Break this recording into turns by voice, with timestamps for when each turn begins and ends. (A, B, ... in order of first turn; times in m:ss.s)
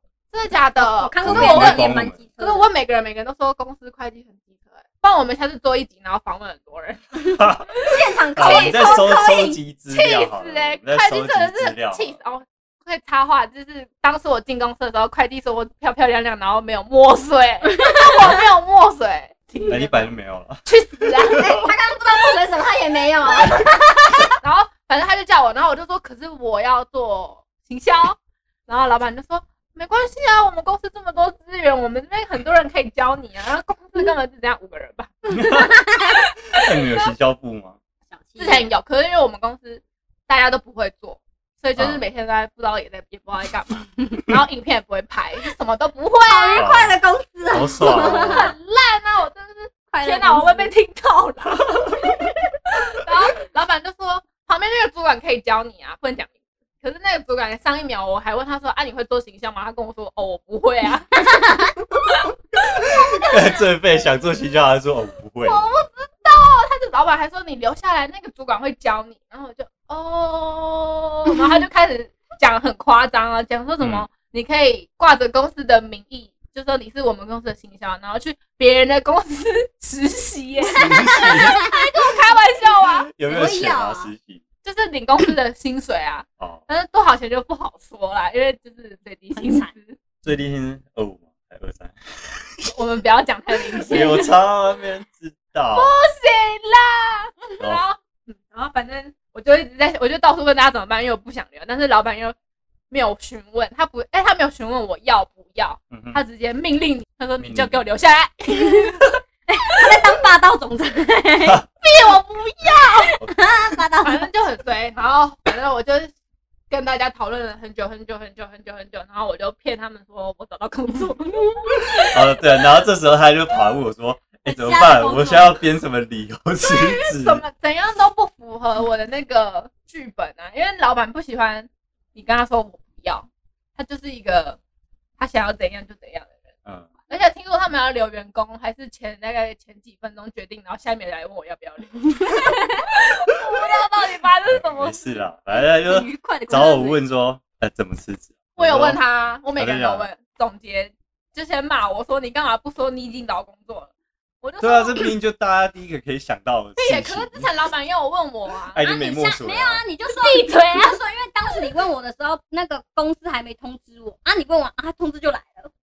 0:00.3-0:21.4 A
0:00.8-0:02.7 B
0:01.2-0:02.2 C
0:07.4-0:12.2 C
0:07.9-0:09.1 B
0:19.7-0:21.6 C
0:21.4-0:24.3 B
0:24.4-0:37.1 A
0:35.3-0:35.8 C
0:35.5-0:35.9 B
0:36.5-0:37.8 C
0:38.1-0:38.7 B
0:38.4-0:46.7 A
0:41.8-0:42.0 C
0:46.3-0:48.5 B
0:46.6-0:47.0 C
0:47.5-0:48.5 C
0:47.8-0:52.1 A
0:49.9-0:50.7 B
0:52.9-1:01.2 A
1:02.8-1:03.3 A
1:03.2-1:05.6 C
1:05.4-1:23.1 A
1:13.8-1:14.1 C
1:20.7-1:21.6 C
1:20.8-1:21.8 B
1:22.8-1:24.4 C
1:23.3-1:24.1 B
1:24.6-1:30.0 A
1:29.3-1:29.7 B
1:30.2-1:32.7 C
1:32.6-1:34.4 A
1:33.8-1:35.9 C
1:35.7-1:42.3 A
1:42.9-1:49.2 A
1:45.9-1:46.2 C
1:47.4-1:47.8 C
1:49.5-1:51.6 B
1:51.8-1:53.1 A
1:53.0-1:54.3 B
1:54.0-1:56.1 A
1:56.7-2:02.2 A
2:02.1-2:07.4 C
2:04.4-2:05.6 B
2:06.6-2:14.6 A
2:15.2-2:16.3 A
2:16.6-2:16.9 C
2:17.1-2:25.2 A
2:24.5-2:29.0 C
2:25.5-2:27.0 B
2:28.6-2:35.1 A
2:29.5-2:30.1 C
2:34.6-2:37.5 C
2:36.8-2:38.8 A
2:38.7-2:39.8 C
2:38.8-2:45.7 B
2:40.1-2:41.0 A